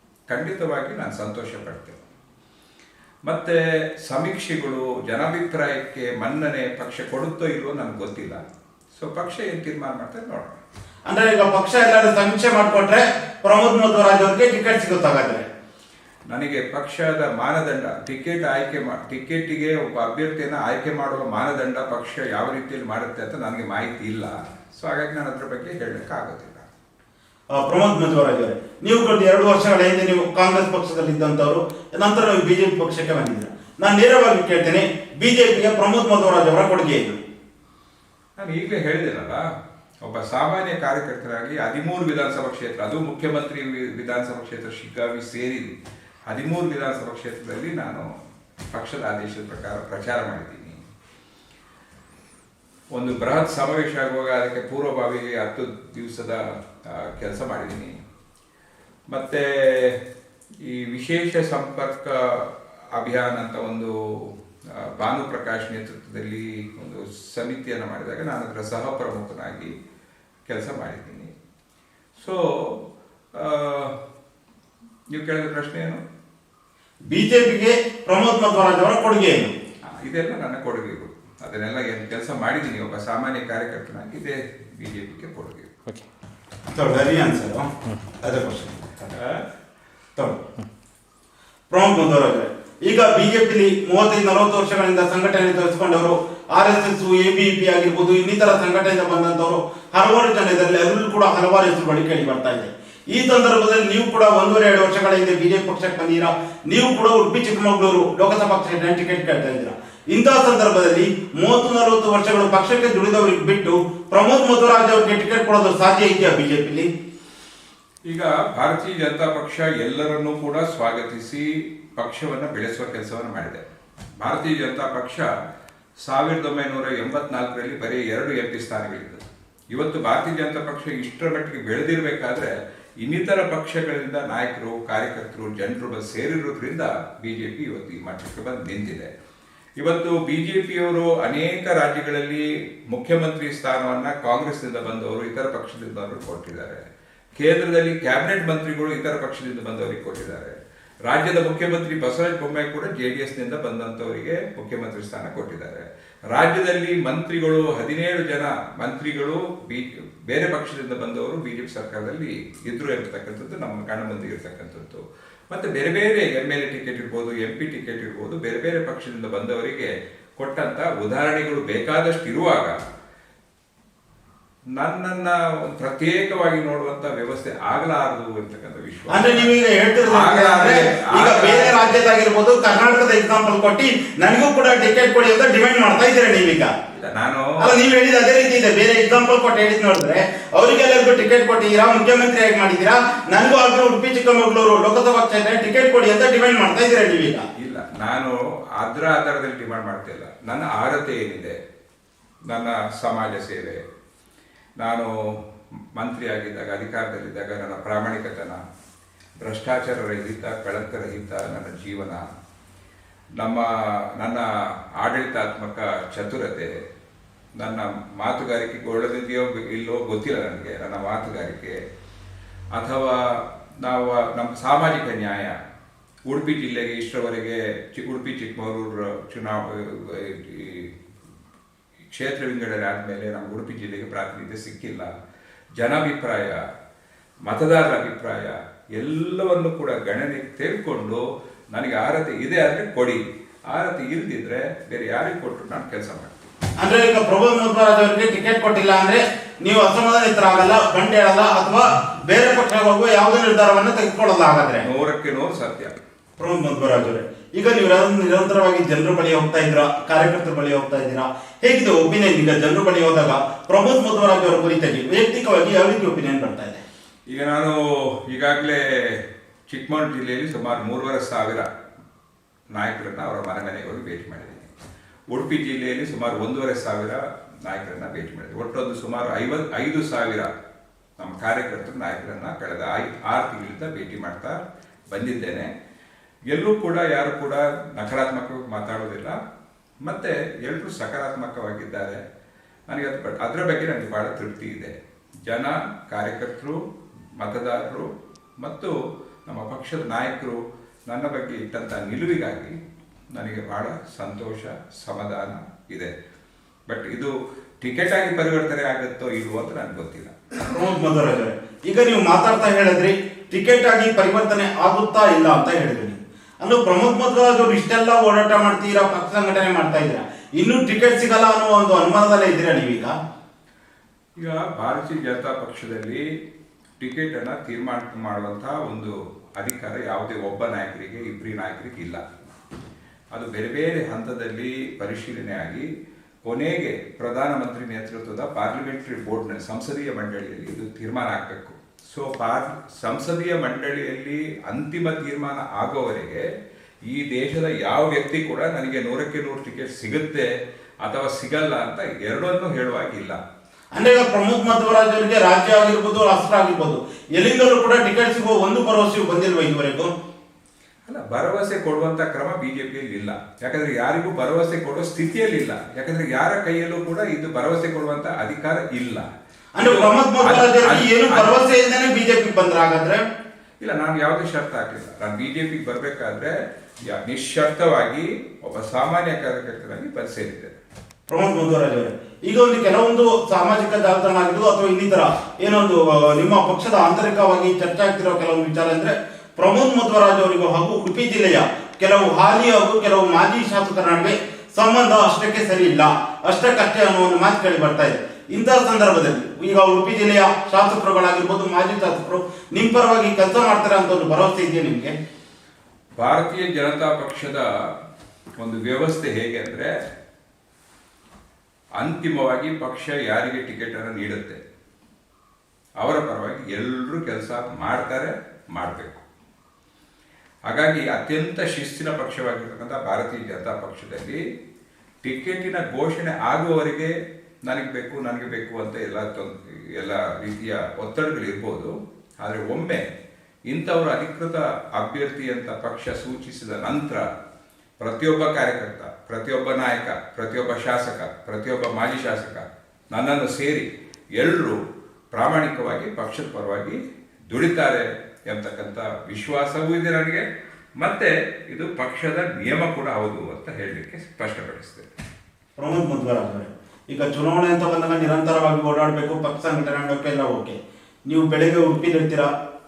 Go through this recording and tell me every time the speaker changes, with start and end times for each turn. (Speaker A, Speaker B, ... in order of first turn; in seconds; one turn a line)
Speaker A: 0.3-2.0
Speaker A: 3.3-8.4
Speaker A: 8.9-10.5
Speaker B: 11.1-15.4
Speaker A: 16.3-26.6
Speaker B: 27.5-37.2
Speaker A: 38.4-39.4
Speaker A: 40.0-45.7
Speaker A: 46.3-48.0
Speaker A: 48.7-50.8
Speaker A: 52.9-57.9
Speaker A: 59.1-60.0
Speaker A: 60.6-69.7
Speaker A: 70.5-71.3
Speaker A: 72.2-72.8
Speaker A: 73.3-73.9
Speaker A: 75.1-76.0
Speaker B: 77.1-79.5
Speaker A: 79.9-85.7
Speaker B: 86.7-87.7
Speaker B: 88.2-89.2
Speaker A: 89.1-89.4
Speaker B: 90.2-90.4
Speaker B: 91.7-116.9
Speaker A: 118.1-121.5
Speaker A: 122.0-123.6
Speaker A: 124.2-125.2
Speaker A: 126.0-139.1
Speaker A: 139.8-146.8
Speaker A: 147.4-150.6
Speaker A: 151.1-172.7
Speaker A: 174.8-179.5
Speaker B: 179.1-186.7
Speaker A: 180.1-182.0
Speaker A: 186.9-187.7
Speaker B: 187.6-197.4
Speaker A: 197.6-201.6
Speaker A: 202.5-203.8
Speaker A: 204.8-205.1
Speaker A: 206.0-208.6
Speaker A: 209.4-212.2
Speaker A: 213.4-214.4
Speaker A: 215.0-216.7
Speaker A: 217.6-221.8
Speaker A: 222.7-225.5
Speaker A: 226.3-230.9
Speaker A: 232.1-235.1
Speaker A: 235.8-236.6
Speaker A: 237.5-241.2
Speaker A: 241.7-243.2
Speaker A: 243.7-246.5
Speaker B: 246.8-254.8
Speaker A: 254.8-255.9
Speaker B: 256.4-266.8
Speaker A: 267.3-271.7
Speaker A: 272.7-274.7
Speaker A: 275.3-280.5
Speaker A: 281.2-284.6
Speaker A: 285.1-285.7
Speaker A: 286.5-289.3
Speaker A: 290.0-292.2
Speaker A: 292.9-294.9
Speaker A: 295.5-296.8
Speaker A: 297.4-298.1
Speaker A: 298.6-298.9
Speaker A: 299.5-302.7
Speaker A: 303.3-306.1
Speaker A: 306.9-310.3
Speaker B: 310.6-323.1
Speaker A: 324.4-326.2
Speaker A: 327.0-332.2
Speaker A: 333.3-335.9
Speaker A: 336.4-346.4
Speaker A: 347.1-350.5
Speaker A: 351.0-353.4
Speaker B: 353.9-360.1
Speaker A: 361.1-369.2
Speaker B: 369.8-373.2
Speaker A: 369.8-371.6
Speaker A: 373.8-376.6
Speaker A: 377.1-380.7
Speaker B: 381.3-405.1
Speaker A: 406.2-407.6
Speaker A: 408.6-410.0
Speaker A: 412.0-414.6
Speaker A: 416.0-419.2
Speaker A: 420.7-424.4
Speaker A: 425.2-427.1
Speaker A: 427.7-431.9
Speaker A: 432.4-433.0
Speaker A: 433.7-437.2
Speaker A: 438.0-444.8
Speaker A: 445.3-447.0
Speaker A: 447.5-450.4
Speaker A: 451.0-455.1
Speaker B: 455.8-462.5